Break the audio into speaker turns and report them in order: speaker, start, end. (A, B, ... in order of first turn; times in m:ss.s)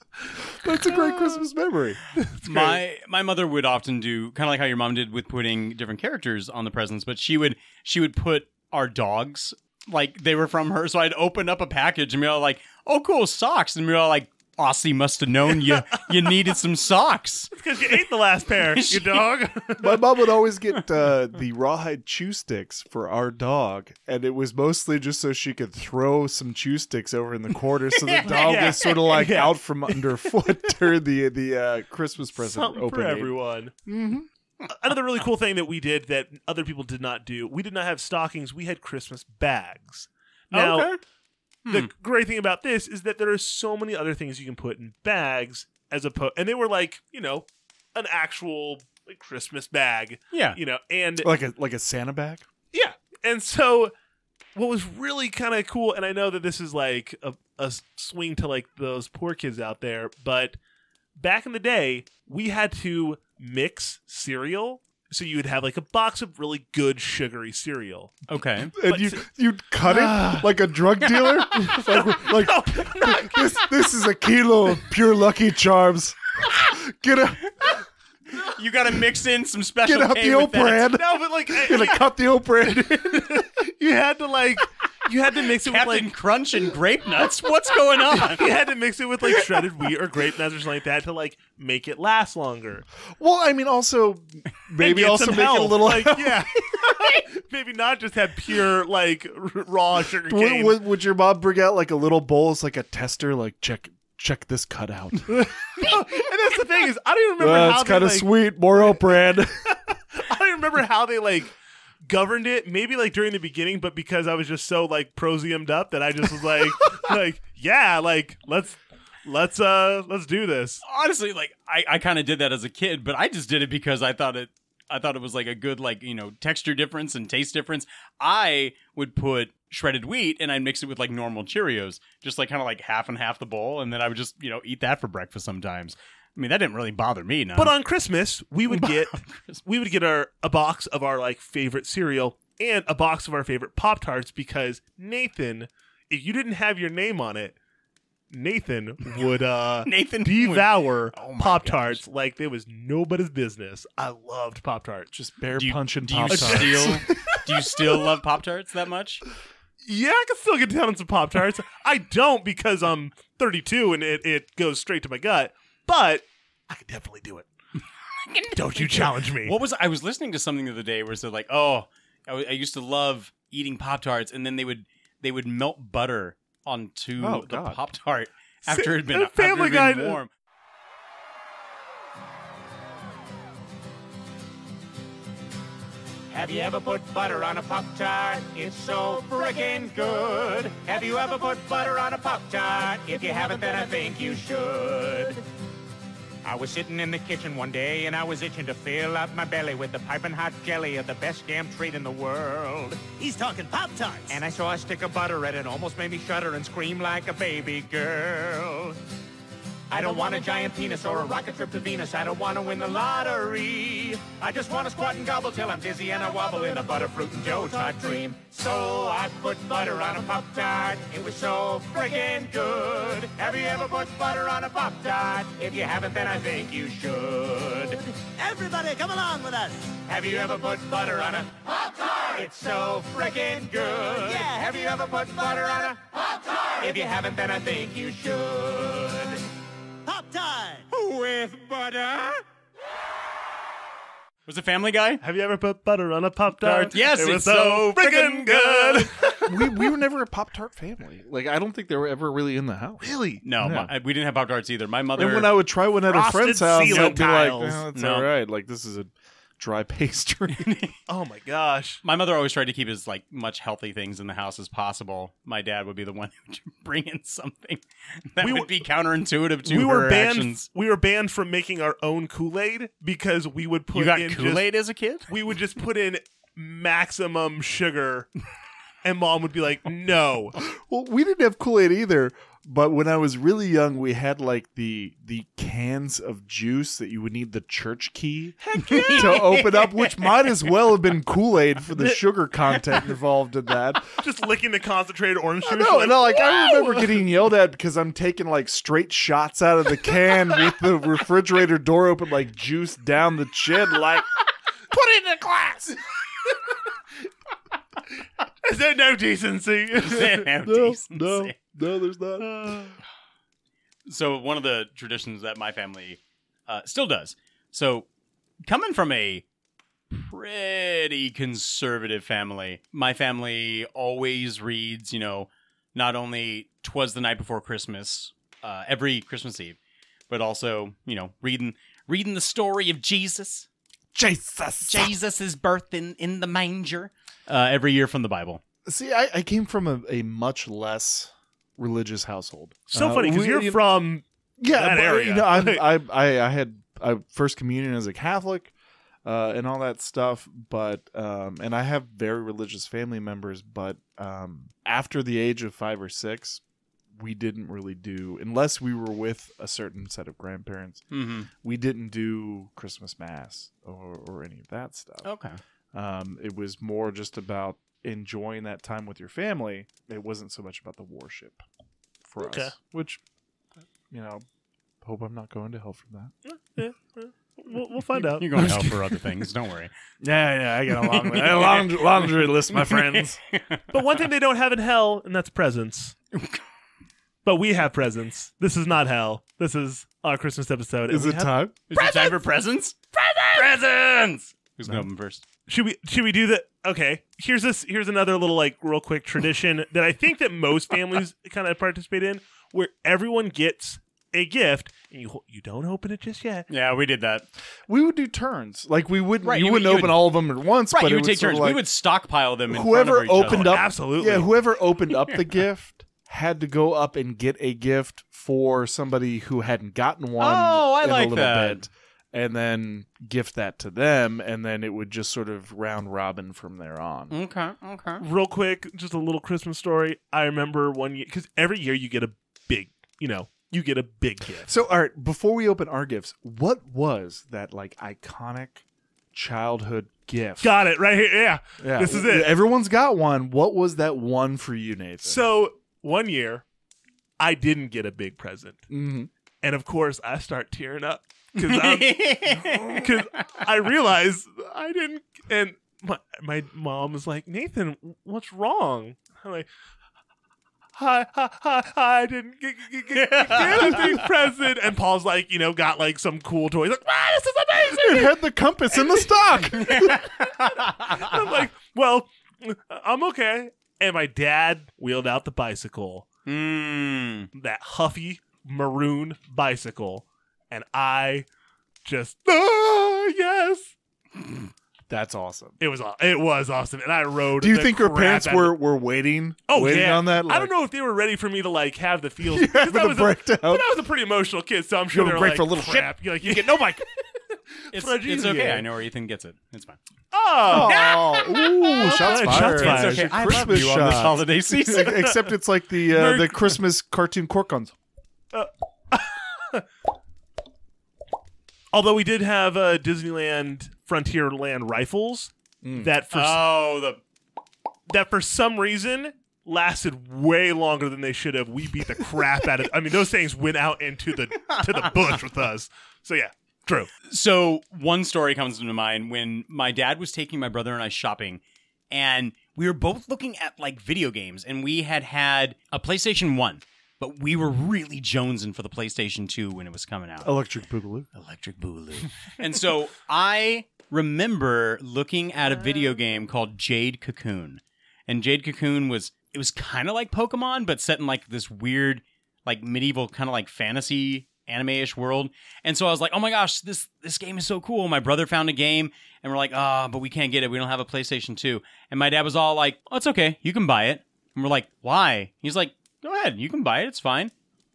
0:00.6-0:02.0 A
0:01.0-0:01.3 B
0:02.2-0:02.8 B
0:02.5-0:17.5 C
0:17.5-0:20.0 B
0:18.7-0:19.3 C
0:19.8-0:33.3 A
0:28.0-0:28.9 C
0:28.3-0:30.1 B
0:32.4-0:33.7 B
0:33.9-0:34.3 A
0:34.8-0:40.9 B
0:40.5-0:41.0 C
0:41.7-0:51.3 B
0:50.3-0:50.6 C
0:51.2-0:52.5 A
0:52.7-0:53.9 B
0:54.6-1:00.6 B
1:01.2-1:08.2 B
1:08.3-1:08.8 C
1:08.8-1:17.7 A
1:08.9-1:09.2 B
1:09.8-1:10.5 B
1:11.1-1:13.6 B
1:18.4-1:20.9 C
1:19.8-1:23.4 A
1:20.9-1:22.1 B
1:23.0-1:26.1 B
1:25.6-1:28.4 C
1:28.1-1:32.8 B
1:33.2-1:36.5 A
1:34.8-1:40.8 B
1:40.3-1:45.9 A
1:45.8-1:48.3 B
1:47.4-1:49.5 A
1:50.2-1:51.5 B
1:52.1-2:00.8 B
2:00.8-2:17.7 C
2:17.6-2:27.6 B
2:18.7-2:19.6 C
2:28.3-2:35.1 B
2:29.8-2:32.0 C
2:35.1-2:37.4 A
2:35.6-2:39.2 C
2:36.3-2:37.0 B
2:39.8-2:47.5 B
2:48.3-3:00.3 C
2:48.6-2:49.6 B
2:57.2-2:57.8 A
2:58.7-3:00.2 B
3:06.3-3:15.4 D
3:16.4-3:23.1 D
3:23.2-3:24.4 E
3:24.3-3:29.0 D
3:29.9-3:48.0 D
3:48.4-3:50.0 E
3:50.1-3:51.6 D
3:52.2-3:56.0 D
3:54.1-3:54.7 E
3:56.8-3:59.4 D
4:00.0-4:00.9 E
4:00.9-4:02.4 D
4:04.5-4:05.2 C
4:05.2-4:09.7 B
4:06.6-4:07.0 A
4:06.9-4:09.1 C
4:09.4-4:13.9 A
4:13.4-4:15.5 C
4:15.2-4:20.8 A
4:16.1-4:17.9 B
4:16.9-4:17.2 C
4:17.9-4:18.3 C
4:20.6-4:20.9 C
4:21.1-4:22.0 B
4:22.0-4:27.8 C
4:28.3-4:30.7 C
4:28.4-4:28.7 B
4:29.6-4:34.7 B
4:33.9-4:35.3 C
4:35.3-4:38.3 B
4:39.0-4:40.5 B
4:40.7-4:54.2 A
4:48.6-4:49.5 B
4:48.8-4:50.5 C
4:54.2-4:57.1 B
4:55.7-5:04.3 A
5:04.9-5:06.0 A
5:08.6-5:10.5 B
5:10.0-5:11.6 C
5:10.6-5:12.9 A
5:14.1-5:18.1 C
5:18.6-5:19.4 C
5:20.1-5:29.8 C
5:30.3-5:33.7 C
5:34.1-5:35.1 A
5:34.9-5:38.6 C
5:38.8-5:43.8 A
5:42.9-5:45.9 B
5:44.6-5:48.7 A
5:49.2-5:56.6 A
5:57.2-6:01.0 A
6:01.1-6:01.5 C
6:01.6-6:05.3 A
6:05.2-6:05.6 C
6:05.9-6:11.6 A
6:12.2-6:13.2 A
6:12.4-6:12.7 B
6:14.1-6:14.4 A
6:15.0-6:16.3 A
6:16.4-6:18.8 B
6:18.2-6:19.9 C
6:20.2-6:23.4 A
6:21.0-6:24.0 C
6:23.9-6:26.2 B
6:26.4-6:26.6 C
6:27.4-6:32.0 B
6:31.1-6:31.8 A
6:31.9-6:35.4 C
6:35.7-6:46.7 B
6:46.7-6:47.5 C
6:47.9-6:51.8 A
6:49.4-6:50.3 C
6:50.9-6:53.8 C
6:52.7-7:07.3 A
6:53.4-6:54.5 B
7:00.4-7:01.9 C
7:07.3-7:08.2 C
7:08.2-7:14.7 B
7:14.6-7:20.7 A
7:20.6-7:22.5 B
7:21.8-7:25.5 A
7:25.2-7:26.6 B
7:27.4-7:28.8 B
7:28.9-7:29.3 A
7:29.6-7:39.7 B
7:31.6-7:33.4 C
7:41.0-7:48.4 B
7:43.2-7:44.2 C
7:47.9-7:50.2 A
7:49.0-7:49.3 B
7:50.7-7:56.3 B
7:56.5-7:57.5 C
7:57.6-8:01.5 B
8:02.0-8:03.9 B
8:05.1-8:05.8 A
8:05.8-8:08.8 B
8:07.6-8:10.7 A
8:09.7-8:17.0 B
8:12.4-8:13.9 A
8:15.1-8:17.0 A
8:17.9-8:18.9 B
8:17.9-8:20.0 C
8:20.3-8:23.8 B
8:20.7-8:28.0 A
8:22.2-8:25.1 C
8:25.0-8:25.4 B
8:26.1-8:26.8 B
8:28.5-8:29.8 B
8:31.9-8:36.6 B
8:35.8-8:36.1 A
8:36.3-8:37.2 C
8:38.1-8:47.1 B
8:44.7-8:45.1 C
8:47.2-9:00.5 C
9:00.4-9:01.3 A
9:01.3-9:27.5 C
9:05.6-9:06.4 B